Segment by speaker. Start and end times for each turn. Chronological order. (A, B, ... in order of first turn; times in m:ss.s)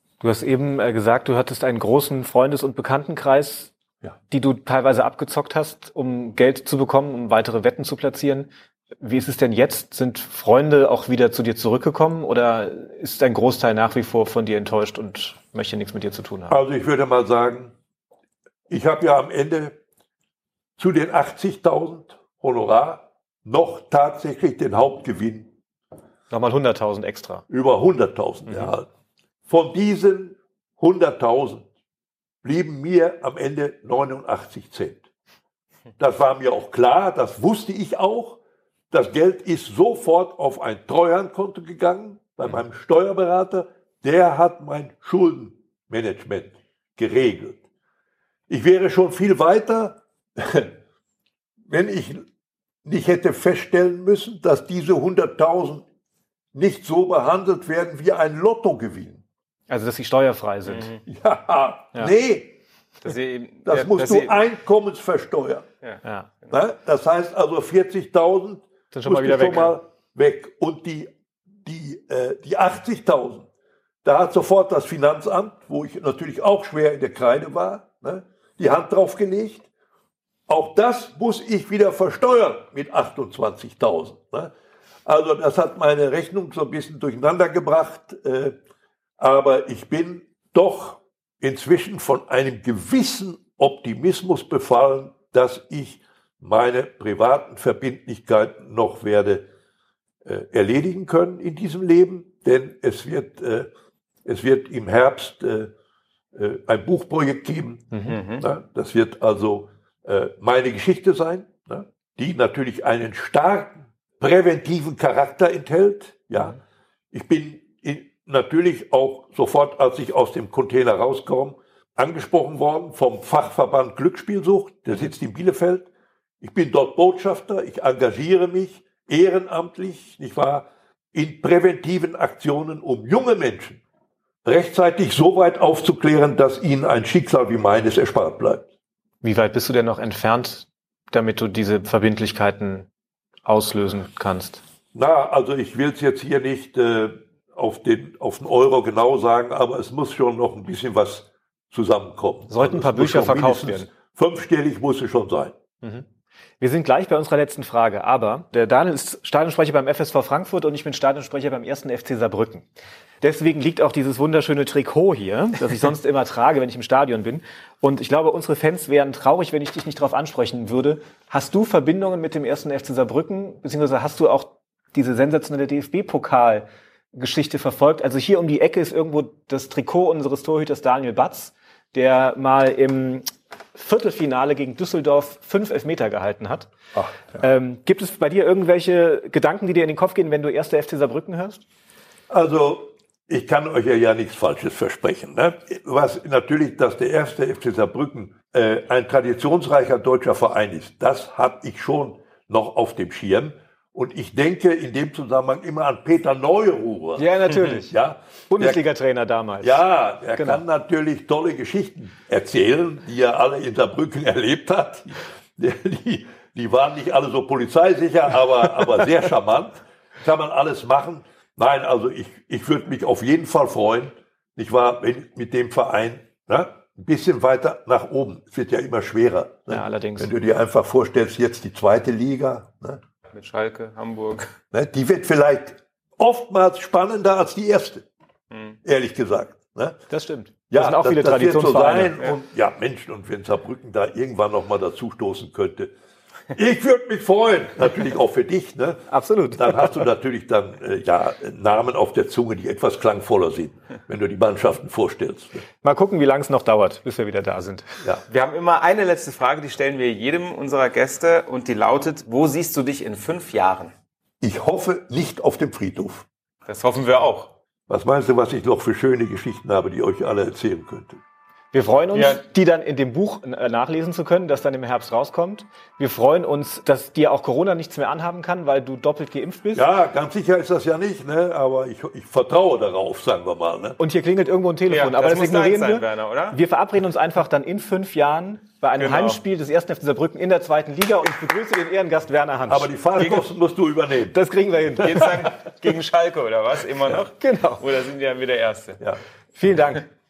0:00.2-0:03.7 A
0:04.3-0:16.6 A
0:16.5-0:17.7 B
0:18.7-0:19.8 B
0:20.8-0:25.5 B
0:26.3-0:27.5 A
0:27.5-0:28.9 B
0:28.5-0:28.7 A
0:29.5-0:31.7 B
0:32.4-0:35.0 B
0:36.0-0:38.4 B
0:38.9-0:47.6 B
0:48.5-0:50.7 B
0:51.7-0:52.3 B
0:52.8-0:55.8 B
0:56.5-0:59.2 B
0:59.7-1:01.0 A
1:00.7-1:01.0 C
1:01.1-1:02.6 B
1:03.0-1:04.4 C
1:03.6-1:05.6 B
1:06.0-1:06.3 A
1:06.5-1:11.1 B
1:08.9-1:09.8 A
1:11.6-1:13.5 B
1:14.0-1:19.7 B
1:20.5-1:24.5 B
1:25.1-1:28.6 B
1:29.2-1:39.5 B
1:40.2-1:43.7 B
1:44.2-1:45.7 B
1:46.3-1:56.6 B
1:48.1-1:48.4 C
1:57.1-2:05.9 B
2:06.4-2:13.8 B
2:14.4-2:18.7 B
2:19.2-2:22.9 A
2:23.4-2:24.6 A
2:24.9-2:35.5 B
2:32.5-2:33.9 A
2:36.6-2:42.7 A
2:43.2-3:06.7 A
3:07.0-3:07.4 B
3:07.4-3:11.6 A
3:12.3-3:28.8 B
3:27.2-3:27.9 A
3:28.5-3:29.8 A
3:29.6-3:53.0 B
3:30.4-3:30.6 A
3:49.7-3:50.3 A
3:53.3-3:54.5 C
3:54.7-3:58.0 B
3:58.8-4:00.0 B
4:00.1-4:02.1 A
4:00.7-4:05.9 B
4:06.5-4:15.6 B
4:09.1-4:10.0 A
4:15.8-4:17.9 A
4:18.3-4:23.9 C
4:24.4-4:26.3 B
4:26.7-4:27.5 C
4:27.9-4:31.2 B
4:31.7-4:39.9 A
4:32.1-4:32.4 C
4:39.7-4:44.0 B
4:44.0-4:52.9 A
4:44.9-4:46.6 C
4:49.0-4:49.4 C
4:52.7-4:54.4 B
4:54.3-4:55.5 A
4:55.0-4:59.0 C
4:57.4-4:57.8 A
4:59.6-5:00.0 A